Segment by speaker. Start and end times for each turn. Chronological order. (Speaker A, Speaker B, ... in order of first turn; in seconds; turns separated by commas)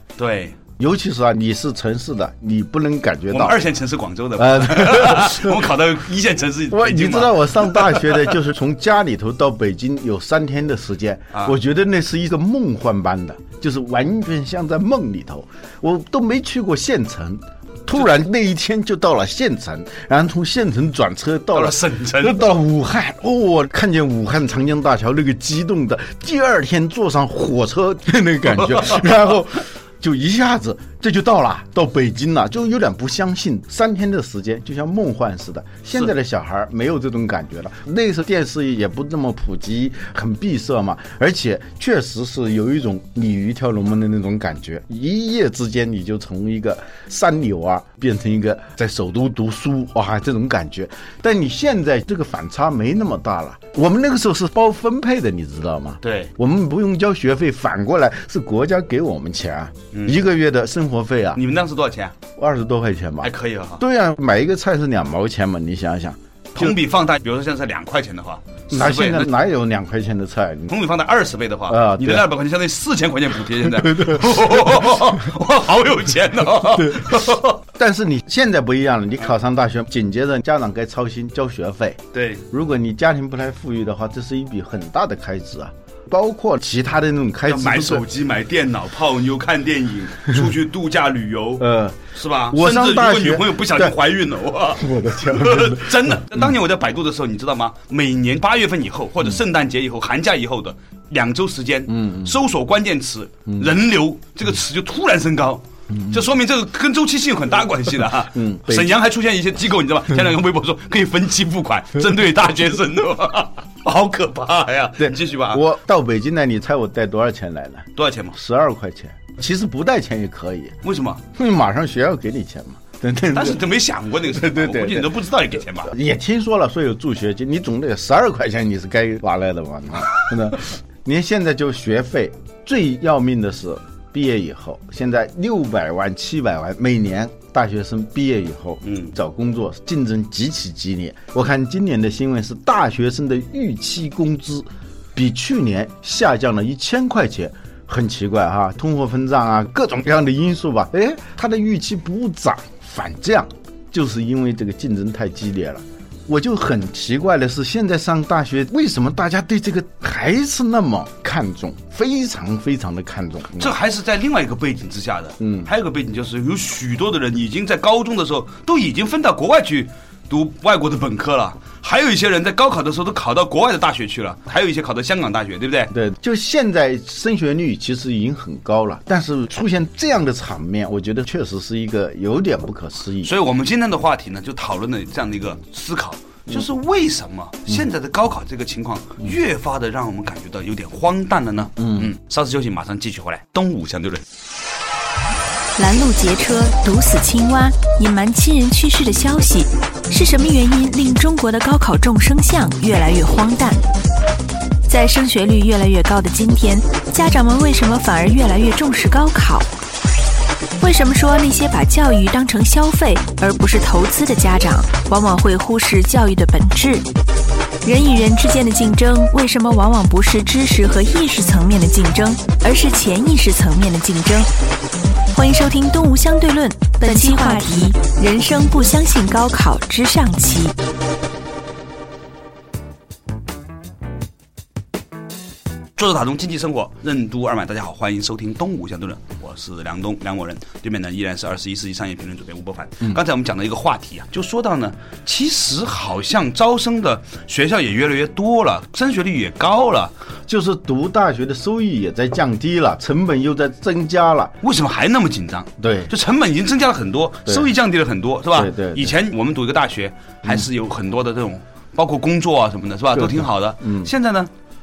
Speaker A: 0.2-0.6, Speaker B: 0.8-3.6, Speaker A: 3.3-8.4, Speaker B: 4.4-5.6, Speaker B: 6.7-61.4, Speaker A: 21.5-22.4, Speaker A: 56.0-56.3, Speaker A: 59.9-60.2, Speaker A: 61.4-62.2, Speaker B: 62.4-66.8, Speaker A: 63.2-63.8, Speaker A: 66.5-69.3, Speaker B: 68.7-70.7, Speaker A: 70.7-77.6, Speaker B: 71.7-72.3, Speaker B: 77.7-88.1, Speaker A: 82.1-82.4, Speaker A: 87.5-115.6, Speaker B: 91.6-94.0, Speaker B: 94.8-96.0, Speaker B: 101.9-102.3, Speaker B: 105.9-106.2, Speaker B: 108.3-108.9, Speaker B: 115.0-120.8, Speaker A: 118.0-118.4, Speaker A: 120.8-121.2, Speaker B: 121.3-123.6, Speaker A: 123.3-125.9, Speaker B: 124.3-125.2, Speaker B: 125.8-163.8, Speaker A: 138.8-139.1, Speaker A: 163.6-175.9, Speaker B: 165.4-165.7, Speaker B: 175.9-183.3, Speaker A: 183.2-194.2, Speaker B: 191.8-192.1, Speaker C: 195.8-203.8, Speaker C: 204.9-209.7, Speaker C: 210.8-217.1, Speaker C: 217.8-224.5, Speaker C: 225.3-230.8, Speaker A: 236.0-250.1, Speaker B: 250.5-254.5, Speaker A: 254.6-264.5, Speaker B: 255.8-256.1, Speaker B: 258.5-259.1, Speaker B: 263.1-264.1